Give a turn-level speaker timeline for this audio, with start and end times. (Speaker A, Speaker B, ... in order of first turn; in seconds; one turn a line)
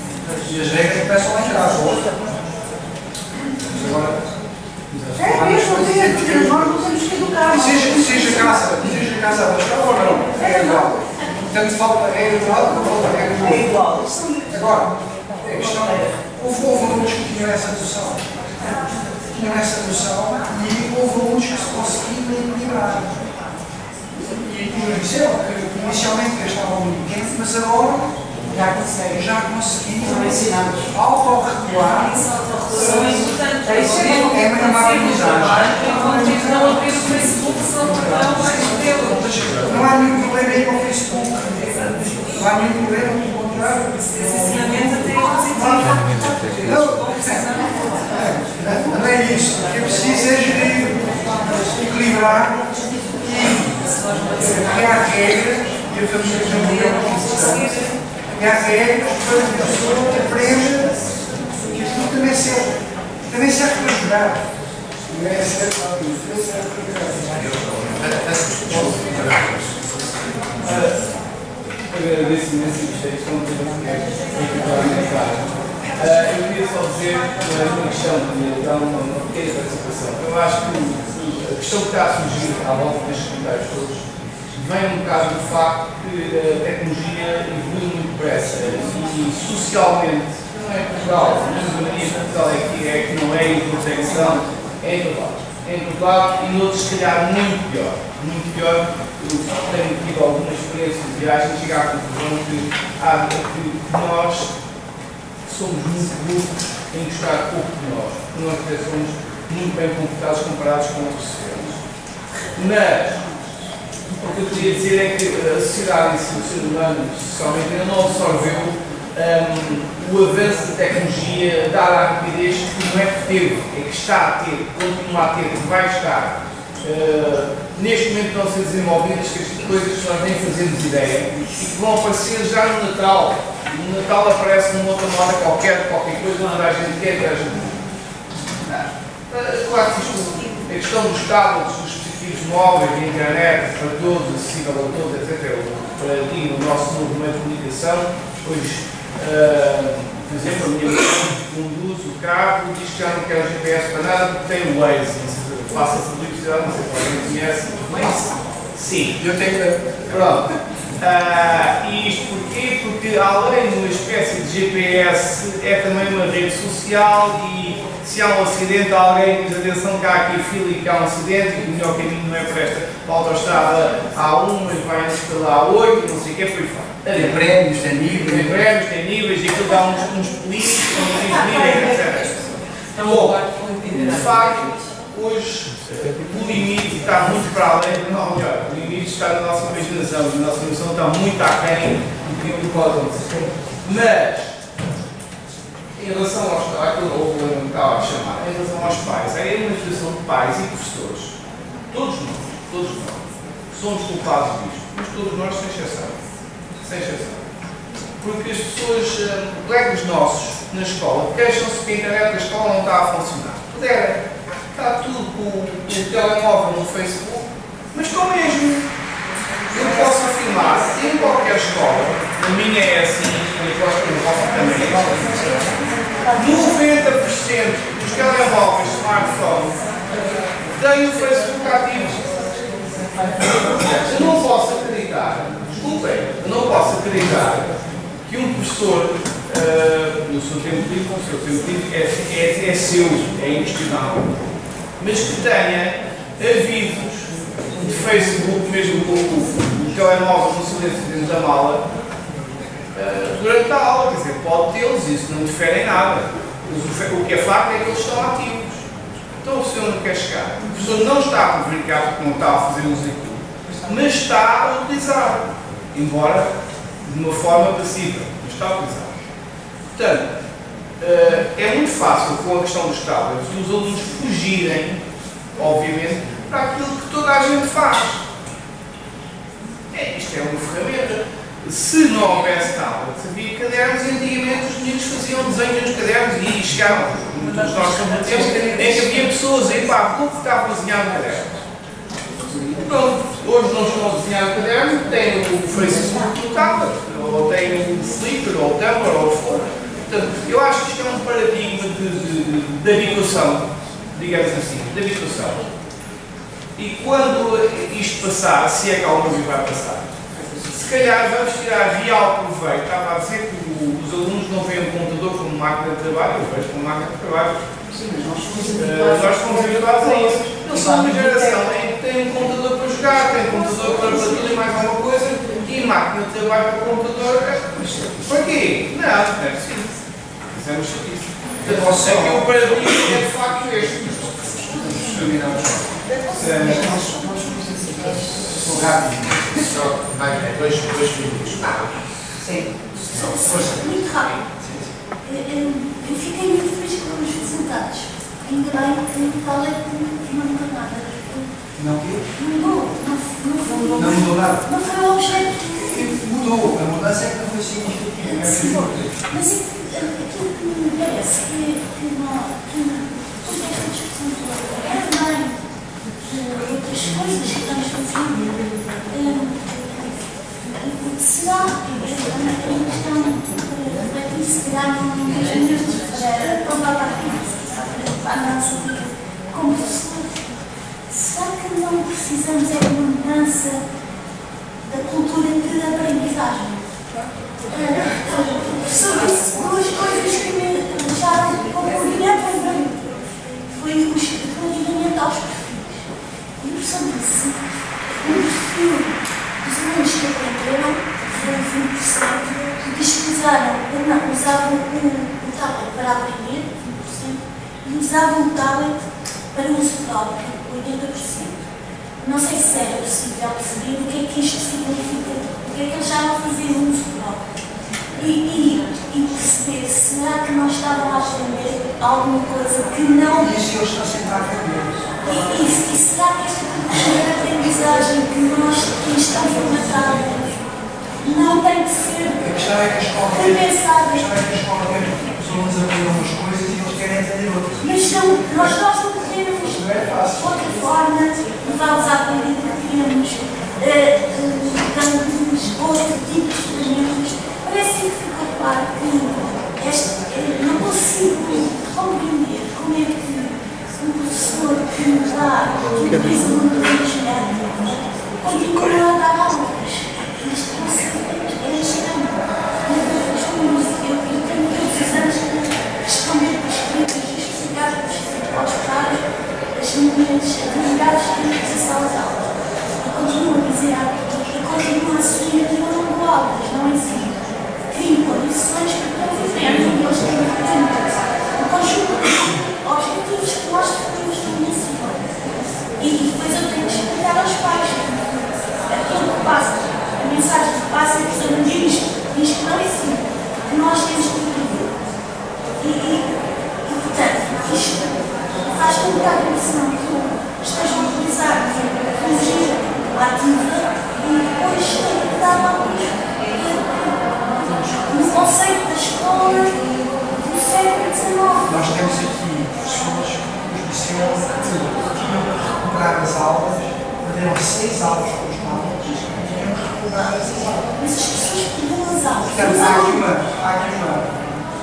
Speaker A: 0.4-2.1
Speaker A: 3.7-4.2
Speaker A: 4.9-6.8
Speaker B: 5.2-8.8
Speaker A: 7.5-11.0
Speaker B: 10.3-11.0
Speaker A: 11.5-13.7
Speaker B: 12.3-14.7
Speaker A: 14.5-14.9
Speaker A: 15.4-18.2
Speaker B: 15.6-16.1
Speaker A: 19.3-23.3
Speaker A: 24.3-28.2
Speaker B: 28.4-29.2
Speaker A: 29.1-32.2
Speaker B: 30.0-30.9
Speaker C: 31.7-39.3
Speaker B: 32.7-35.9
Speaker A: 32.8-33.2
Speaker A: 34.3-46.0
Speaker C: 41.8-42.3
Speaker C: 44.1-48.8
Speaker A: 46.6-47.4
Speaker A: 48.8-53.7
Speaker C: 53.7-55.2
Speaker A: 54.4-57.8
Speaker C: 56.2-58.0
Speaker A: 58.3-60.9
Speaker A: 61.7-62.7
Speaker A: 63.3-64.5
Speaker D: 65.1-67.4
Speaker E: 67.3-70.0
Speaker D: 68.7-69.0
Speaker D: 70.6-71.0
Speaker D: 71.9-104.5
Speaker D: 105.4-111.8
Speaker D: 112.5-113.2
Speaker D: 114.2-137.8
Speaker D: 138.6-159.2
Speaker A: 159.2-160.4
Speaker D: 160.0-177.4
Speaker A: 177.1-178.6
Speaker D: 178.1-194.6
Speaker C: 183.2-184.2
Speaker D: 196.0-201.3
Speaker D: 201.9-206.2
Speaker D: 206.8-207.4
Speaker D: 208.2-218.9
Speaker D: 219.7-225.7
Speaker D: 226.3-237.7
Speaker D: 238.2-244.3
Speaker D: 245.0-251.8
Speaker D: 252.9-258.8
Speaker D: 259.4-269.2
Speaker D: 269.9-270.3
Speaker D: 271.0-275.0
Speaker D: 275.5-278.2
Speaker D: 279.9-291.6
Speaker C: 287.4-289.2
Speaker D: 292.4-305.6
Speaker D: 306.8-310.1
Speaker B: 310.3-310.7
Speaker D: 310.7-317.7
Speaker B: 317.9-321.7
Speaker D: 318.8-329.9
Speaker D: 330.5-335.1
Speaker A: 331.6-333.2
Speaker A: 333.9-339.6
Speaker B: 336.8-337.9
Speaker E: 339.5-342.0
Speaker B: 342.4-342.7
Speaker E: 343.1-344.4
Speaker F: 343.1-344.4
Speaker A: 343.2-344.9
Speaker F: 345.2-351.5
Speaker A: 351.8-352.2
Speaker F: 352.3-356.2
Speaker A: 353.9-354.6
Speaker A: 355.6-359.2
Speaker F: 358.2-365.6
Speaker F: 366.2-368.5
Speaker F: 369.1-380.6
Speaker F: 381.1-383.8
Speaker F: 384.8-386.9
Speaker F: 387.7-411.6
Speaker F: 412.2-417.4
Speaker F: 418.1-423.6
Speaker A: 423.4-425.2
Speaker F: 425.2-430.6
Speaker F: 431.2-432.7
Speaker A: 432.4-438.8
Speaker F: 433.3-434.3
Speaker F: 437.8-469.2
Speaker A: 439.6-440.6
Speaker F: 469.7-485.5
Speaker F: 486.0-494.9
Speaker F: 495.8-496.3
Speaker F: 496.8-498.2
Speaker F: 498.7-512.0
Speaker A: 511.6-520.8
Speaker F: 520.8-523.3
Speaker A: 522.4-524.4